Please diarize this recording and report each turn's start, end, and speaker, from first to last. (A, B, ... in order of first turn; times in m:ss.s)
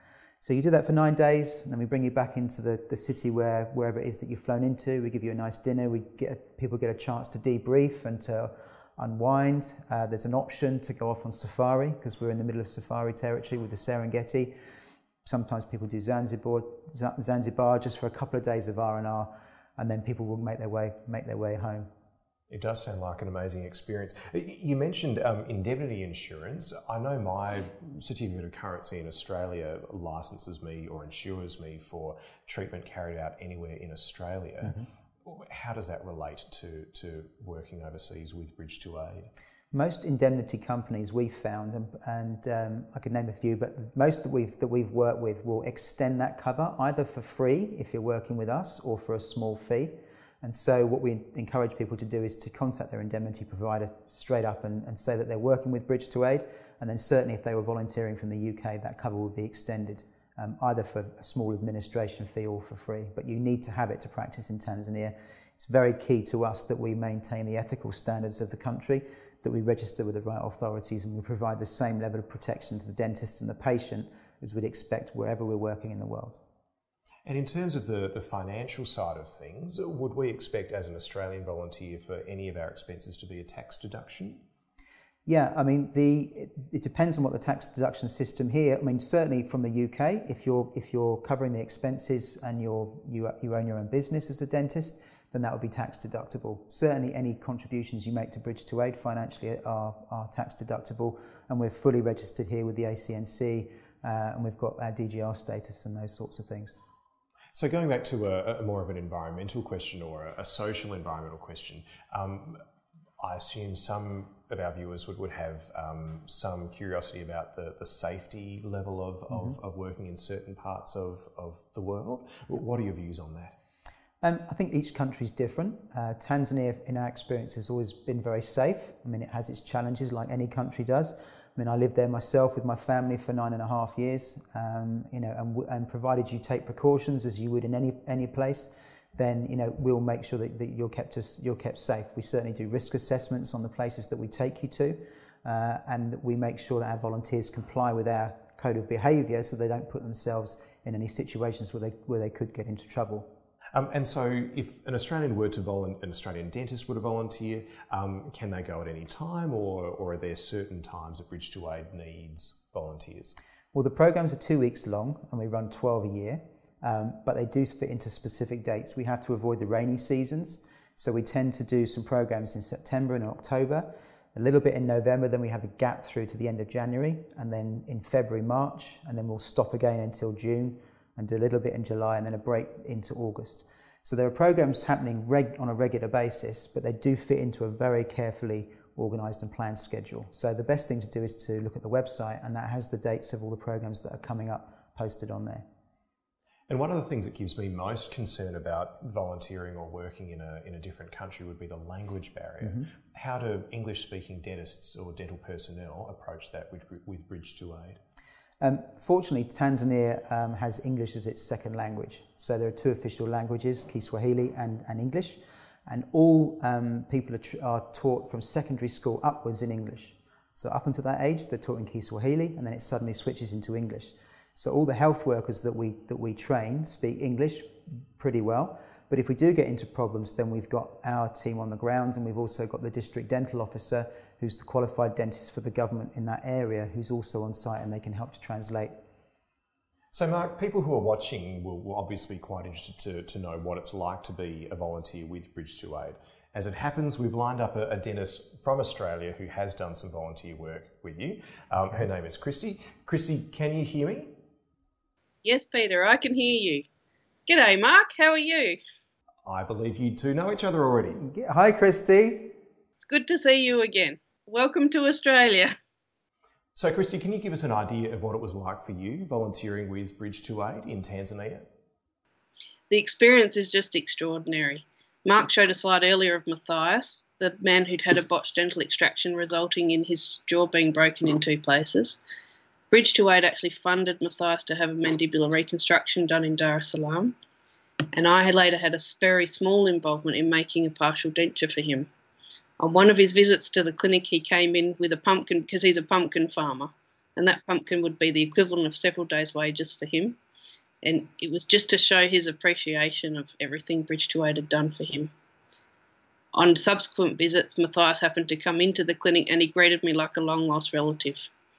0:00.4-0:14.5 A
0:15.2-0:21.9 A
0:22.5-0:39.3 B
0:39.7-1:16.4 A
1:17.2-1:24.4 B
1:25.2-1:46.8 A
1:47.5-1:52.6 B
1:53.2-2:03.5 B
1:59.3-1:59.6 A
2:04.2-2:33.3 A
2:33.7-2:43.4 B
2:43.7-3:15.6 A
3:16.7-3:28.0 B
3:28.6-3:59.0 A
4:00.1-4:14.3 B
4:15.4-4:16.8 C
4:17.5-4:18.8 C
4:19.4-4:21.2 B
4:21.2-4:22.5 A
4:23.0-4:25.7 C
4:26.7-4:31.6 B
4:32.9-4:42.2 C
4:42.9-4:47.4 C
4:48.1-4:52.1 C
4:52.8-5:00.4 C
5:01.0-5:05.3 C
5:06.5-5:11.5 C